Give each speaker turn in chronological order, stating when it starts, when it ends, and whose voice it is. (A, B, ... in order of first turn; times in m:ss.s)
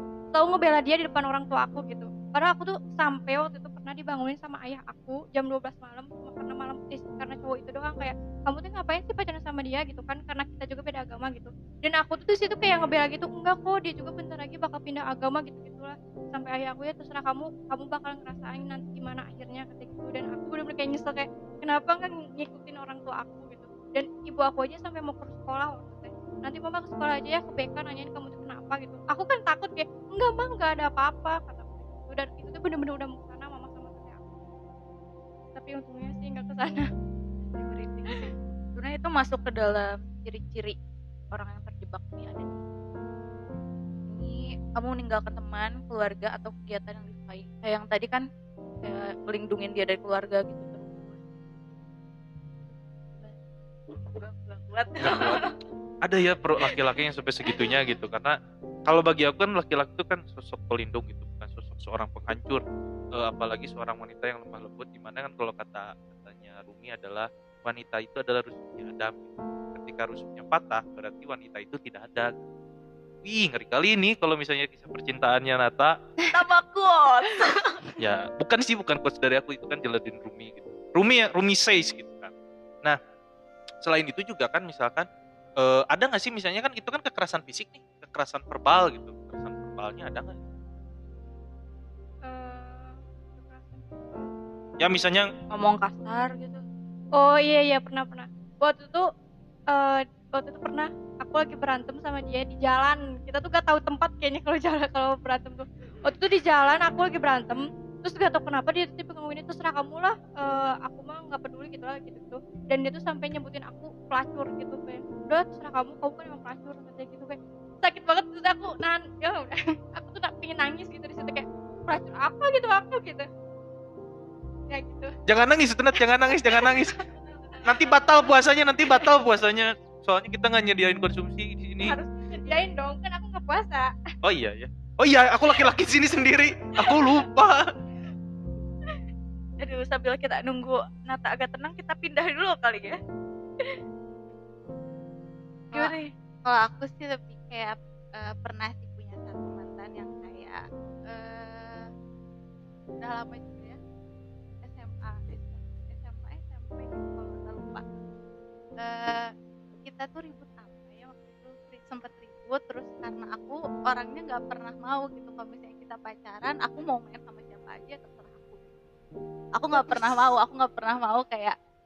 0:00.3-0:34.2 A
0:35.5-0:36.8 A
0:37.5-0:40.8 B
0:41.3-0:42.6 B
0:44.1-0:48.2 B
0:48.8-0:51.3 B
0:53.9-0:55.6 B
0:55.0-0:55.4 C
0:56.0-1:02.6 C
0:57.4-0:57.8 B
1:03.1-1:12.3 C
1:13.2-1:15.9 C
1:16.3-1:17.8 B
1:18.0-1:22.3 C
1:23.8-1:25.1 C
1:25.6-1:30.4 C
1:32.2-1:34.3 A
1:34.8-1:35.3 C
1:35.5-1:36.6 B
1:37.2-1:39.1 A
1:39.7-2:03.2 A
2:04.7-2:05.1 A
2:05.2-2:07.0 C
2:06.0-2:07.9 A
2:07.6-2:12.0 C
2:11.8-2:13.9 A
2:14.2-2:17.6 C
2:16.8-2:17.1 A
2:19.6-2:23.0 B
2:25.7-2:26.1 B
2:25.7-2:31.9 D
2:33.0-2:33.8 D
2:34.6-2:37.8 D
2:38.8-2:39.3 D
2:39.8-2:48.7 D
2:49.6-2:51.5 D